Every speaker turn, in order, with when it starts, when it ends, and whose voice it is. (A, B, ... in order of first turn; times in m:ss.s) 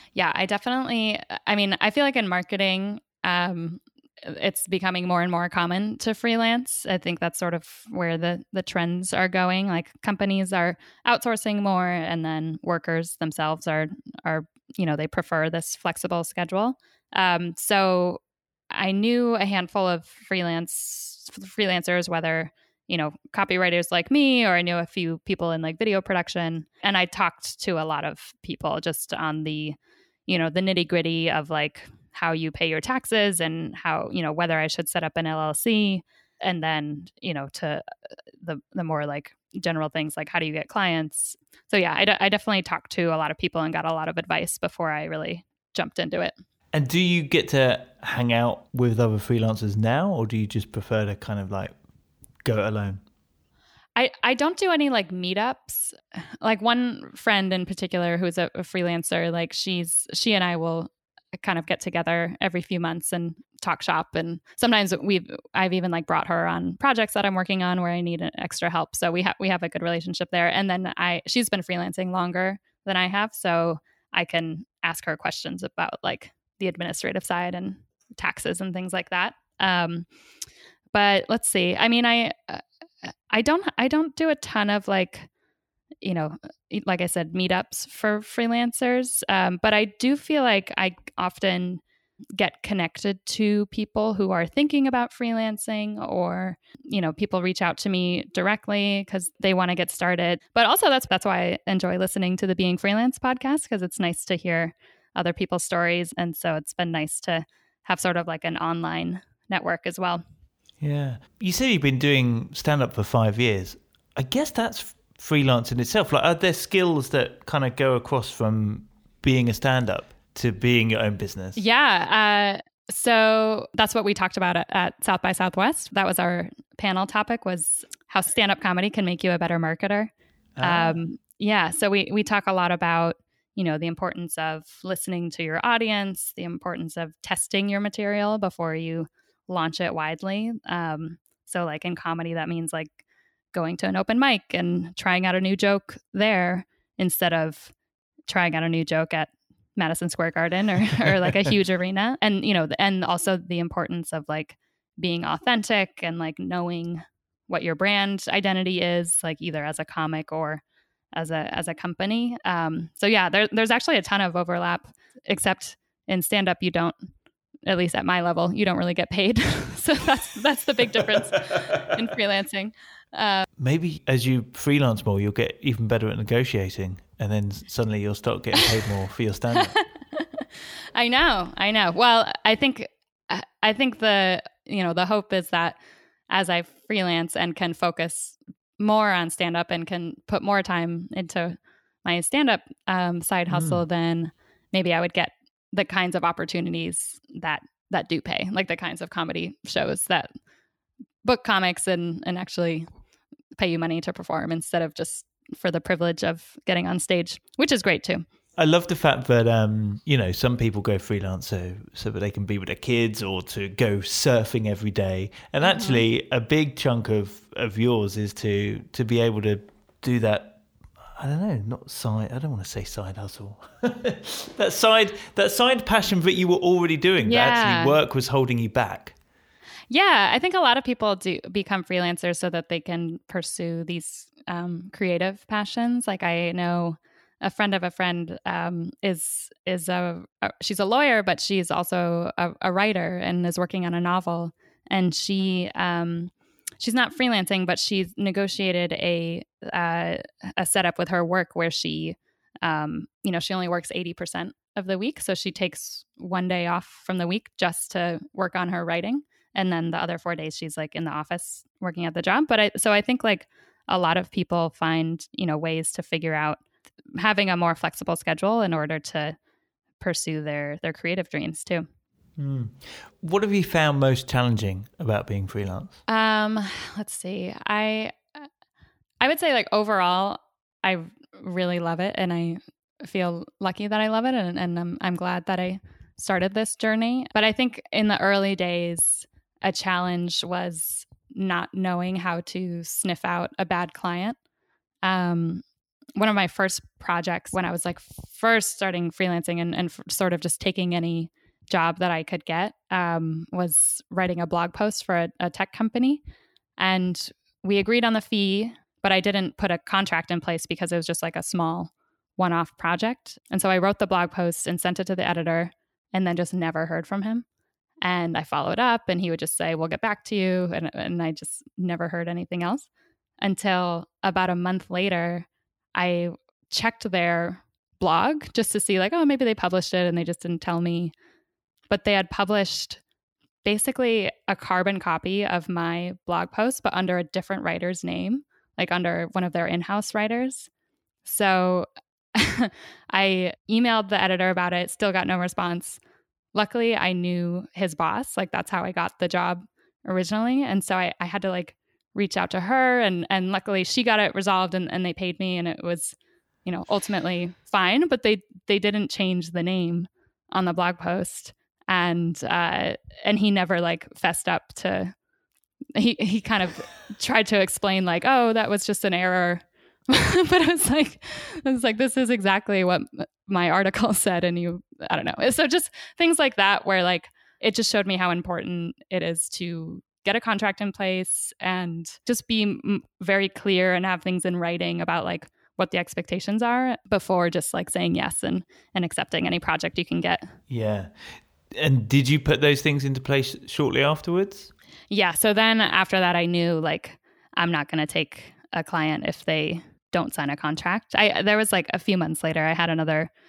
0:00.1-0:37.8 A
0:38.4-0:46.3 A
0:46.7-0:51.7 B
0:52.4-0:53.0 B
0:53.9-1:20.1 A
1:20.9-1:25.3 A
1:26.0-1:31.8 A
1:32.4-1:50.2 A
1:50.8-2:01.6 B
2:01.6-2:23.0 A
2:10.6-2:11.0 B
2:23.5-2:27.7 A
2:28.3-2:47.0 A
2:47.6-2:53.4 A
2:53.6-2:59.8 B
2:59.8-3:05.8 A
3:06.3-3:20.3 A
3:13.5-3:13.8 B
3:21.2-3:22.8 A
3:23.5-3:28.2 A
3:28.6-3:40.6 B
3:35.6-3:36.0 A
3:41.2-3:49.1 B
3:47.2-3:48.0 A
3:49.9-4:26.6 A
4:27.2-4:29.4 A
4:30.0-4:31.8 A
4:32.4-4:36.0 B
4:36.1-4:38.5 A
4:39.2-4:54.4 A
4:55.0-4:55.6 A
4:56.2-5:06.2 A
5:06.8-5:17.4 A
5:18.0-5:22.9 A
5:23.4-5:31.1 A
5:31.9-5:33.0 A
5:33.6-5:40.7 A
5:41.2-5:46.0 A
5:46.5-6:05.1 A
6:05.9-6:30.5 A
6:30.7-6:31.1 B
6:31.7-6:34.7 B
6:35.1-6:43.3 A